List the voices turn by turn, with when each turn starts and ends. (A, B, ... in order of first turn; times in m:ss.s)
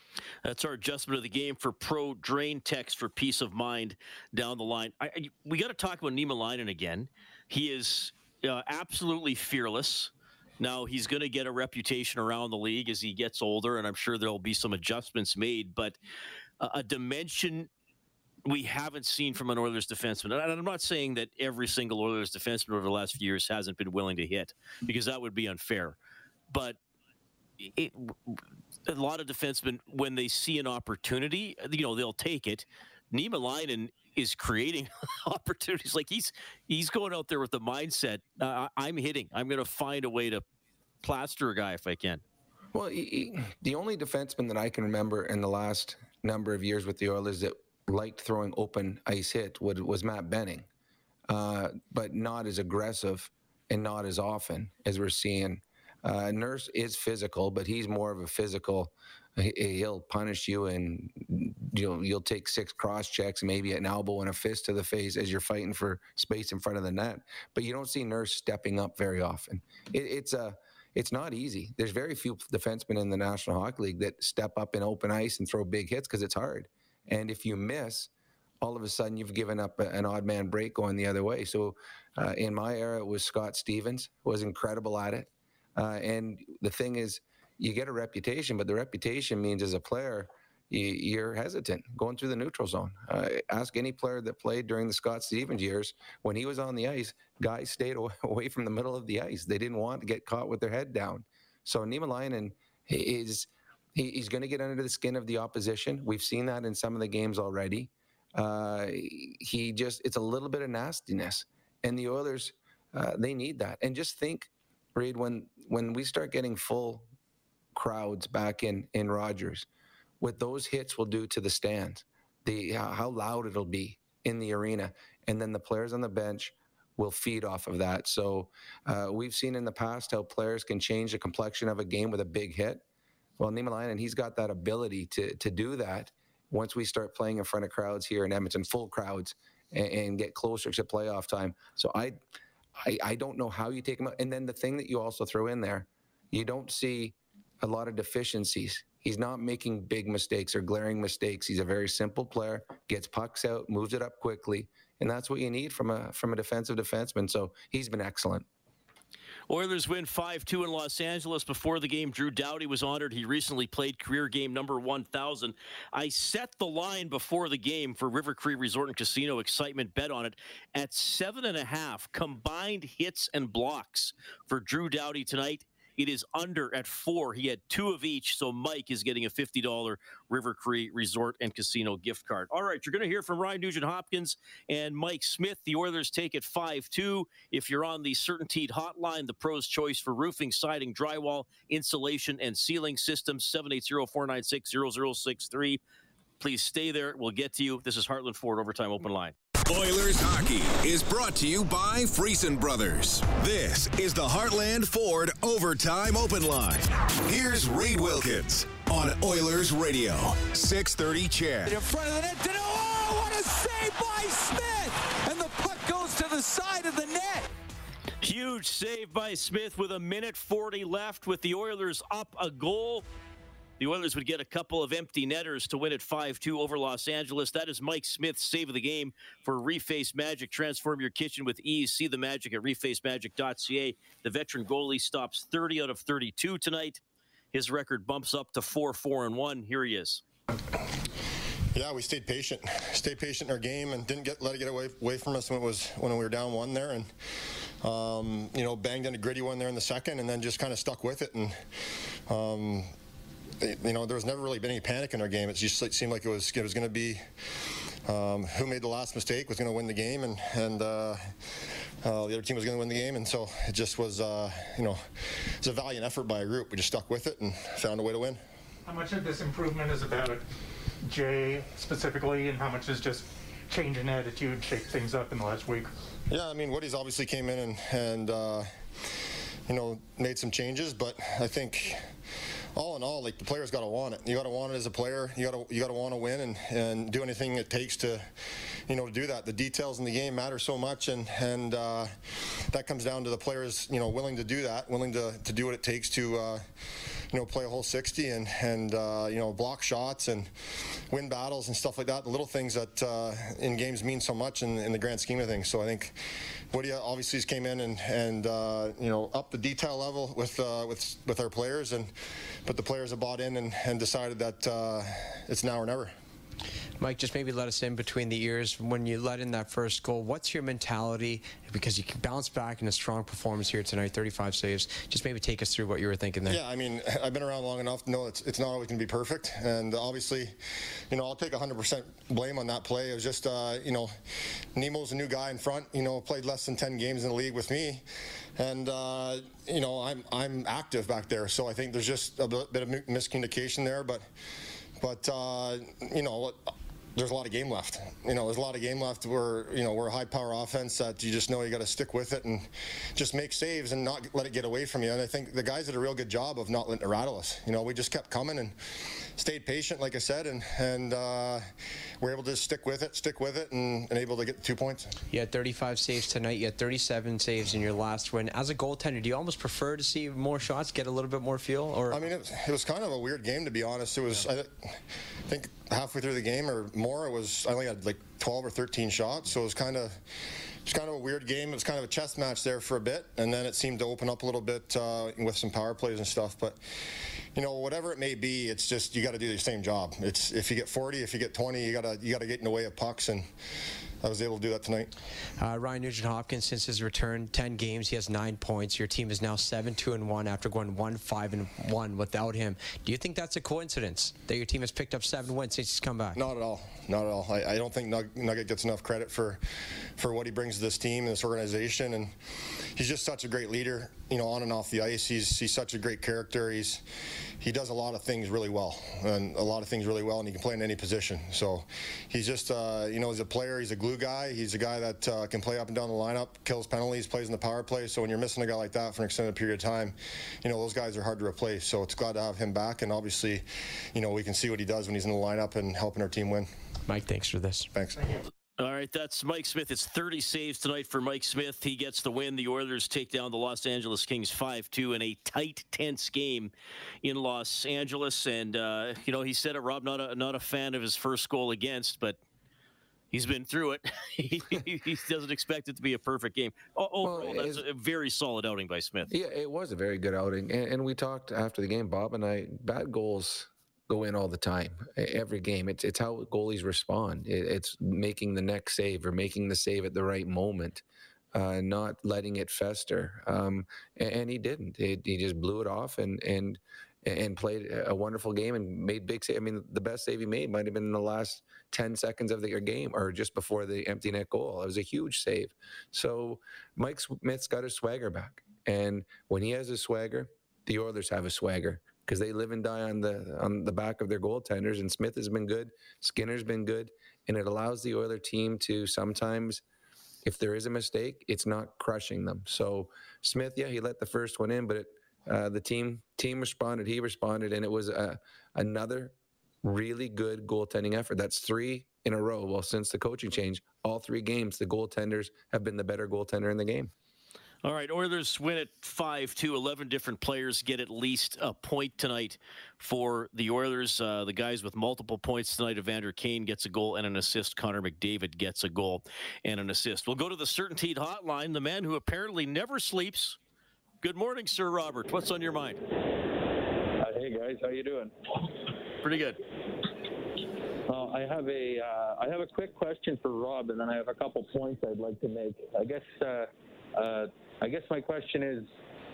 0:00.4-0:16.0 A
0:16.6-0:17.7 A
0:18.4-0:26.0 A
0:26.5-0:26.8 A
0:27.6-0:40.4 A
0:41.0-0:42.2 A
0:42.7-0:50.7 B
0:51.3-1:18.1 B
1:18.6-1:57.1 B
1:57.7-1:59.7 B
2:00.2-2:12.8 B
2:13.4-2:22.2 B
2:22.8-2:38.4 B
2:39.5-3:15.8 A
3:16.4-3:19.3 A
3:19.6-3:31.8 C
3:31.6-3:37.5 D
3:38.2-3:43.0 A
3:43.8-3:57.0 A
3:57.5-4:00.2 A
4:01.7-4:07.1 E
4:07.8-4:11.6 E
4:12.3-4:12.9 E
4:13.6-4:17.2 E
4:18.0-4:21.3 E
4:22.0-4:28.4 E
4:28.8-4:30.4 F
4:31.0-4:35.9 F
4:36.3-4:38.7 E
4:39.7-4:42.1 E
4:42.7-4:48.3 E
4:48.9-4:52.1 E
4:52.7-4:56.6 E
4:57.3-5:00.5 E
5:01.1-5:06.2 E
5:06.7-5:12.1 E
5:12.6-5:16.1 E
5:17.0-5:26.6 G
5:26.5-5:30.5 E
5:31.1-5:34.1 E
5:34.7-5:38.0 E
5:38.6-5:44.2 E
5:45.0-5:58.8 E
5:59.4-6:01.7 E
6:02.2-6:05.1 E
6:05.3-6:12.2 G
6:12.1-6:20.2 E
6:20.8-6:26.8 E
6:27.5-6:33.5 E
6:34.2-6:35.1 E
6:35.6-6:46.4 G
6:46.4-6:49.6 E
6:50.2-6:52.3 E
6:52.9-6:57.0 E
6:57.6-7:16.7 E
7:17.1-7:17.9 G
7:17.9-7:18.2 E
7:18.8-7:26.7 A
7:27.2-7:32.4 A
7:33.3-7:39.3 A
7:37.2-7:37.8 B
7:39.3-7:51.0 B
7:51.5-8:19.8 B
8:20.4-8:37.1 B
8:37.8-8:53.6 A
8:54.2-8:56.0 A
8:57.3-8:58.3 H
8:59.2-8:59.6 A
9:01.1-9:06.6 H
9:07.2-9:08.8 H